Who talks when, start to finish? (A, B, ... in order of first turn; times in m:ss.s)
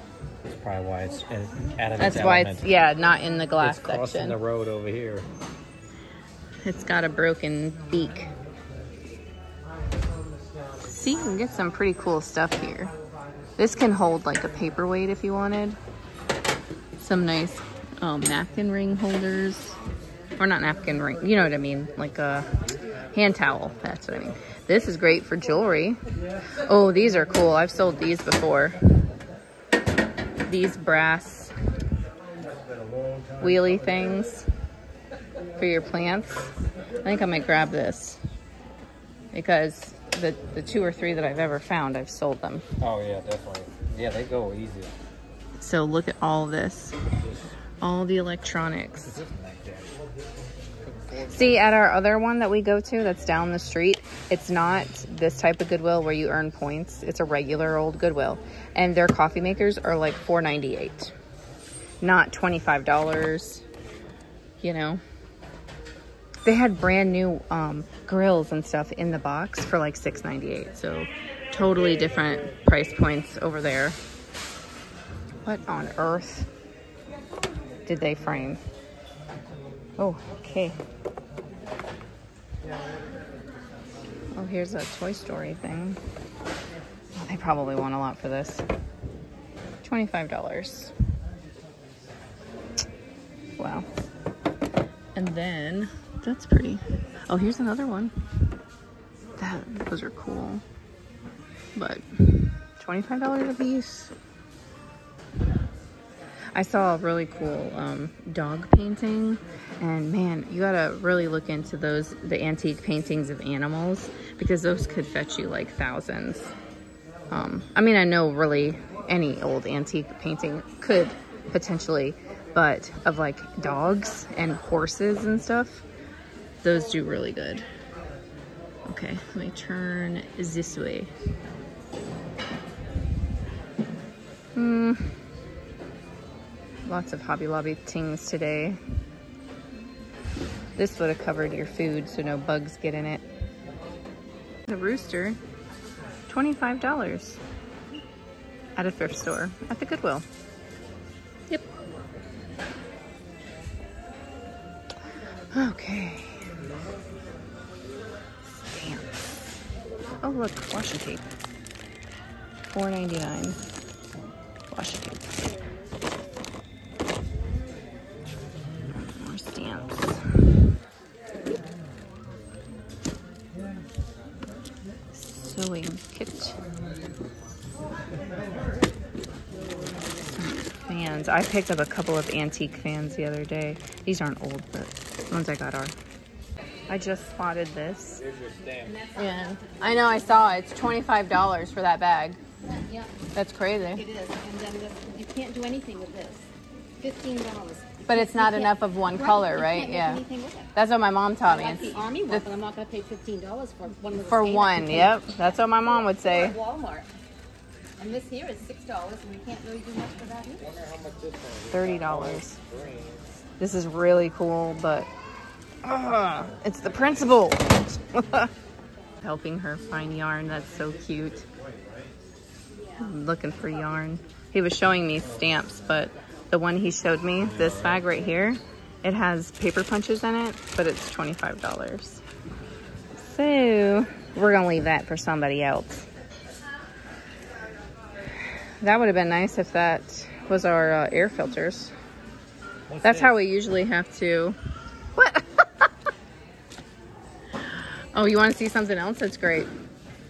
0:00.4-0:02.7 A
0:02.0-0:04.4 B
0:03.6-0:05.3 A
0:06.6-0:08.3 B
0:10.8-0:12.9 B
0:13.6-0:15.8 B
0:17.0-0:19.8 B
0:20.4-0:26.0 B
0:26.6-0:28.8 B
0:30.5-0:31.5 B
0:33.4-0:34.5 B
0:35.6-0:36.5 B
0:37.0-0:38.2 B
0:39.3-0:42.6 B
0:42.8-0:44.9 A
0:45.6-0:47.0 B
0:47.2-0:47.5 A
0:47.8-0:49.2 B
0:49.0-0:50.0 A
0:50.8-0:51.7 A
0:51.2-1:01.1 B
1:02.0-1:03.6 B
1:04.6-1:05.0 B
1:06.4-1:14.0 B
1:15.4-1:16.5 B
1:17.8-1:18.6 B
1:20.0-1:20.8 B
1:24.3-1:26.0 B
1:27.2-1:28.6 B
1:29.8-1:30.9 B
1:33.6-1:33.9 B
1:35.1-1:38.1 B
1:39.4-1:40.6 B
1:41.8-1:44.1 B
1:46.5-1:56.5 B
1:57.3-2:05.8 B
2:06.6-2:07.6 B
2:08.8-2:11.1 B
2:14.5-2:15.2 B
2:16.8-2:18.8 B
2:20.8-2:23.2 B
2:24.7-2:25.4 B
2:26.3-2:27.4 B
2:28.8-2:30.2 B
2:35.5-2:36.5 B
2:38.4-2:39.4 B
2:40.2-2:41.2 B
2:42.7-2:43.6 B
2:44.7-2:45.4 B
2:48.9-2:50.5 B
2:55.1-2:56.6 B
3:00.2-3:05.9 B
3:06.9-3:08.2 B
3:08.2-3:09.0 A
3:08.8-3:10.6 C
3:09.2-3:12.4 B
3:12.6-3:13.1 C
3:13.3-3:14.0 B
3:13.8-3:16.5 C
3:17.0-3:20.7 C
3:18.1-3:20.2 B
3:20.7-3:22.5 B
3:21.4-3:25.2 C
3:24.2-3:26.6 B
3:26.0-3:27.1 C
3:28.0-3:30.6 C
3:30.5-3:33.4 A
3:31.7-3:32.6 B
3:33.6-3:35.1 B
3:35.8-3:38.5 B
3:39.2-3:41.5 B
3:43.0-3:52.2 B
3:47.4-3:48.0 A
3:53.2-3:56.0 B
3:58.8-4:01.9 B
4:02.9-4:03.4 A
4:03.0-4:04.6 B
4:05.1-4:05.9 B
4:07.7-4:09.7 B